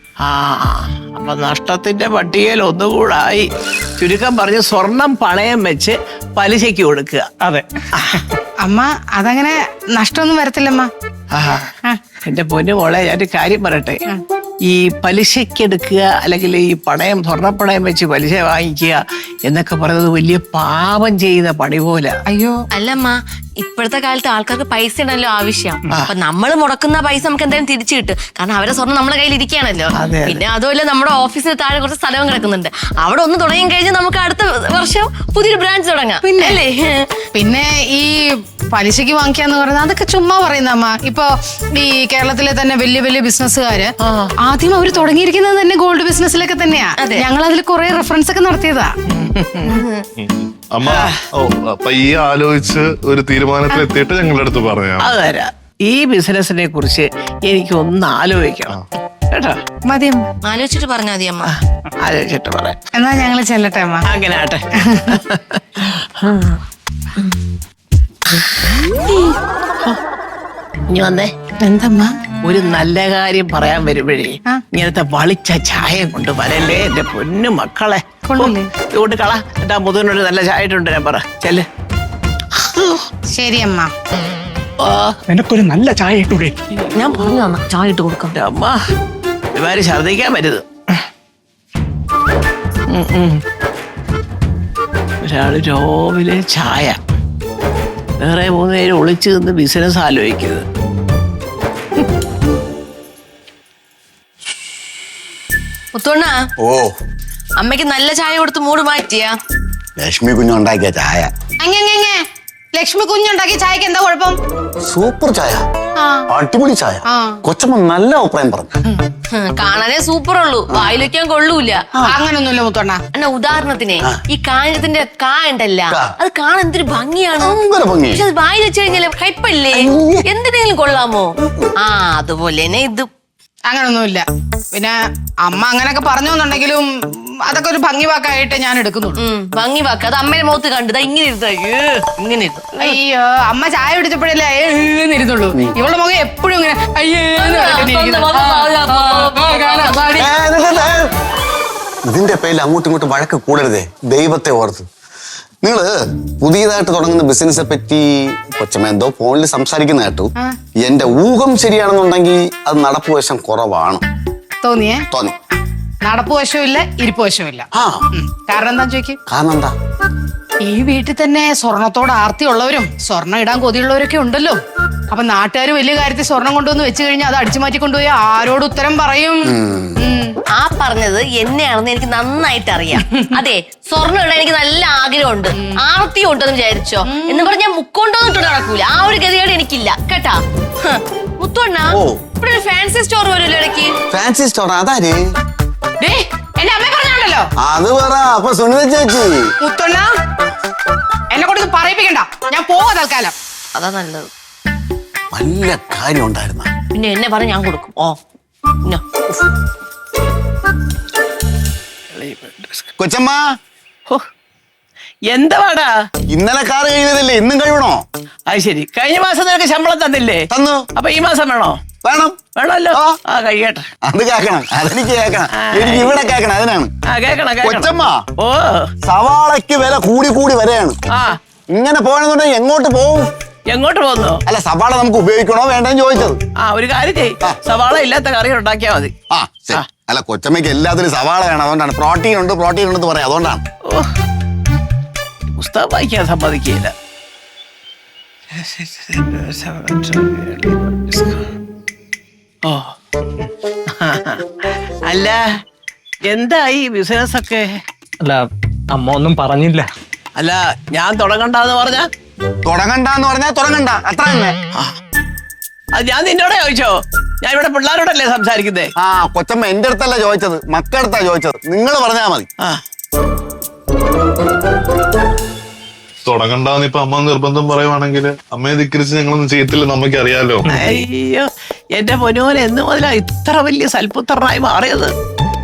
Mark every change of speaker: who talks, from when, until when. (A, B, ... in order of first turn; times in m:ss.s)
0:00.2-0:03.5 A
0:04.0-0:07.3 A
0:07.4-0:08.4 B
0:08.6-0:10.9 C
0:11.3-0:11.7 A
0:12.3-0:14.0 A
0:14.7-0:22.2 A
0:22.3-0:22.6 C
0:22.7-0:37.1 D
0:30.0-0:30.4 A
0:36.2-0:36.6 C
0:37.3-0:48.9 C
0:44.0-0:44.3 A
0:47.0-0:47.3 D
0:49.1-0:49.8 A
0:49.7-0:50.0 D
0:50.2-0:55.1 E
0:50.9-0:51.2 A
0:55.0-0:58.8 A
0:59.3-0:59.6 A
0:59.9-1:00.2 C
1:00.4-1:01.5 D
1:01.5-1:02.8 A
1:03.0-1:04.0 C
1:04.1-1:06.3 A
1:04.9-1:05.2 C
1:08.3-1:08.8 A
1:10.9-1:11.3 A
1:11.6-1:12.1 C
1:12.4-1:21.7 A
1:18.3-1:18.7 C
1:22.6-1:23.0 A
1:23.3-1:23.9 C
1:24.8-1:25.2 A
1:25.3-1:26.7 B
1:26.9-1:28.4 D
1:28.3-1:28.8 A
1:29.5-1:30.7 A
1:32.9-1:33.4 A
1:35.2-1:37.0 A
1:38.2-1:40.7 A
1:45.9-1:46.4 D
1:46.6-1:47.0 F
1:47.6-1:49.4 D
1:50.0-1:51.3 F
1:51.6-1:52.2 C
1:52.7-1:54.4 C
1:54.9-1:55.6 F
1:56.0-1:56.2 C
1:56.3-1:58.8 F
1:57.1-1:57.4 C
1:59.3-2:01.8 D
2:00.7-2:01.0 F
2:02.0-2:03.0 C
2:03.1-2:07.6 D
2:07.4-2:08.2 F
2:08.1-2:11.3 D
2:09.7-2:10.3 F
2:11.4-2:11.7 F
2:11.8-2:13.1 D
2:13.7-2:16.9 C
2:17.4-2:19.2 C
2:19.2-2:22.9 D
2:22.8-2:30.3 C
2:27.4-2:30.1 D
2:30.2-2:31.1 F
2:32.1-2:34.9 F
2:35.6-2:44.0 F
2:44.6-2:45.0 C
2:45.1-2:45.4 F
2:46.0-2:49.2 C
2:47.7-2:48.1 F
2:49.3-2:49.7 F
2:50.6-2:54.6 C
2:55.1-2:59.5 C
2:59.4-3:00.0 F
3:00.0-3:00.4 C
3:00.6-3:13.9 D
3:07.1-3:07.5 C
3:11.9-3:12.2 F
3:14.1-3:15.2 F
3:16.0-3:17.5 C
3:17.6-3:19.5 F
3:19.6-3:20.1 C
3:21.3-3:23.3 C
3:23.8-3:24.3 D
3:25.3-3:26.7 F
3:26.9-3:28.2 D
3:32.1-3:32.9 A
3:33.0-3:33.4 F
3:35.3-3:35.9 A
3:36.3-3:38.0 F
3:38.5-3:41.8 A
3:40.5-3:40.9 F
3:42.0-3:42.4 F
3:42.6-3:43.9 A
3:44.0-3:46.9 F
3:45.5-3:46.2 A
3:47.1-3:48.9 A
3:47.6-3:48.2 F
3:49.0-3:51.0 F
3:51.1-3:51.4 A
3:51.7-3:53.3 F
3:53.7-3:54.4 A
3:54.5-3:56.4 F
3:56.6-3:59.1 A
3:59.3-4:03.6 F
4:05.6-4:06.9 A
4:08.5-4:11.5 A
4:12.6-4:14.4 A
4:15.1-4:15.4 A
4:16.3-4:17.8 A
4:18.2-4:19.9 B
4:20.4-4:22.1 A
4:22.6-4:24.5 F
4:25.9-4:28.9 A
4:29.0-4:32.5 F
4:36.2-4:40.7 E
4:40.7-4:41.0 B
4:40.7-4:45.1 A